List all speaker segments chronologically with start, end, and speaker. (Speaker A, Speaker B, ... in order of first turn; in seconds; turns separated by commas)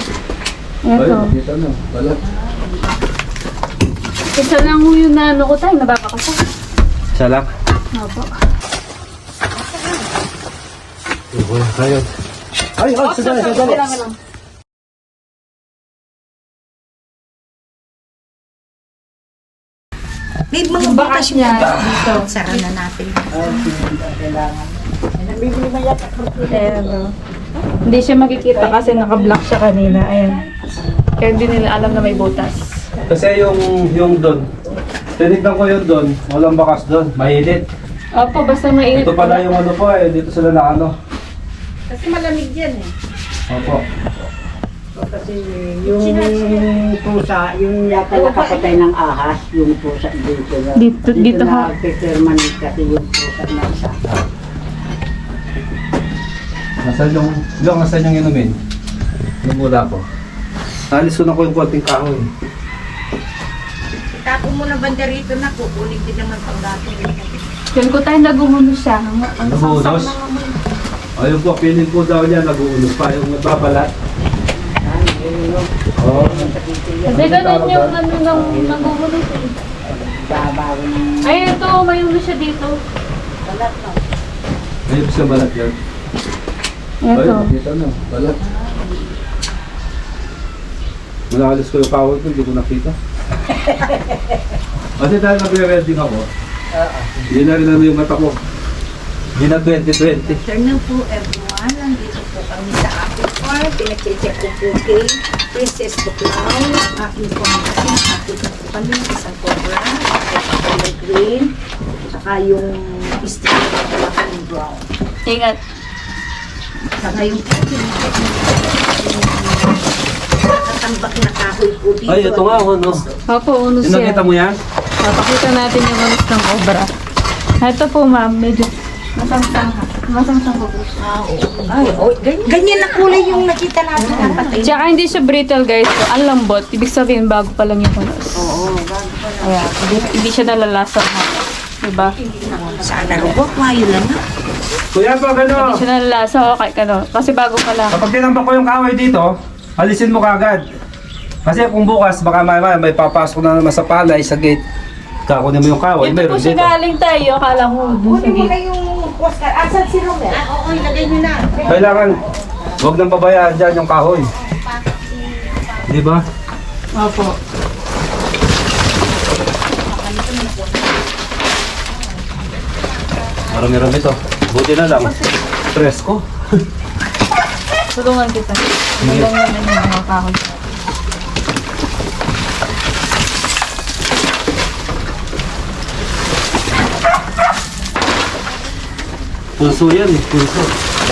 Speaker A: 0.8-1.3, Speaker B: 0.9-2.2, Speaker A: 4.3-6.5, Speaker B: 7.1-7.5, Speaker A: 7.9-8.3, Speaker C: 9.5-10.0, Speaker B: 11.3-12.1, Speaker B: 12.8-13.9, Speaker A: 13.0-14.1, Speaker C: 20.5-23.4, Speaker A: 20.7-22.6, Speaker D: 23.3-27.0, Speaker A: 26.5-27.1, Speaker A: 27.8-30.4, Speaker D: 28.6-29.4, Speaker A: 31.2-32.7, Speaker B: 33.1-34.5, Speaker B: 35.2-37.6, Speaker A: 38.1-39.5, Speaker B: 38.9-40.9, Speaker A: 41.9-42.7, Speaker C: 42.0-42.9, Speaker B: 43.5-43.8, Speaker D: 44.9-54.0, Speaker C: 45.9-46.7, Speaker C: 48.1-48.8, Speaker A: 50.8-51.7, Speaker B: 56.8-58.6, Speaker B: 59.4-60.0, Speaker B: 60.9-62.3, Speaker C: 64.1-67.4, Speaker A: 67.7-70.1, Speaker B: 69.4-70.1, Speaker C: 69.7-70.5, Speaker B: 71.2-73.9, Speaker D: 74.6-77.3, Speaker B: 76.0-76.5, Speaker A: 77.0-79.5, Speaker B: 77.1-78.0, Speaker D: 78.3-79.0, Speaker D: 79.8-81.5, Speaker A: 81.2-82.8, Speaker D: 83.4-84.0, Speaker B: 84.9-85.8, Speaker A: 87.0-87.5, Speaker B: 87.1-88.4, Speaker B: 91.3-93.0, Speaker B: 95.0-96.3, Speaker D: 96.7-97.1, Speaker B: 97.3-98.3, Speaker B: 99.3-100.4, Speaker C: 100.2-111.5, Speaker C: 112.1-114.8, Speaker A: 115.2-115.6, Speaker C: 117.0-118.9, Speaker C: 120.5-123.1, Speaker B: 122.1-123.0, Speaker A: 123.3-124.2, Speaker B: 123.8-124.6, Speaker A: 125.0-126.9, Speaker A: 127.6-130.9, Speaker C: 131.0-134.8, Speaker D: 134.1-134.6, Speaker A: 134.2-138.4, Speaker C: 138.4-139.5, Speaker A: 139.4-142.2, Speaker C: 142.4-144.2, Speaker D: 142.5-143.5, Speaker B: 144.9-145.8, Speaker A: 145.5-148.0, Speaker B: 147.9-150.6, Speaker B: 151.4-154.6, Speaker B: 155.3-156.7, Speaker A: 156.0-158.5, Speaker C: 158.0-162.7, Speaker B: 161.7-162.2, Speaker B: 162.8-164.3, Speaker C: 164.2-165.9, Speaker B: 165.9-166.2, Speaker A: 166.9-167.3, Speaker C: 169.8-171.1, Speaker C: 171.7-173.8, Speaker B: 173.5-175.1, Speaker B: 175.7-176.2, Speaker A: 177.9-180.4, Speaker B: 179.0-179.3, Speaker B: 189.6-190.7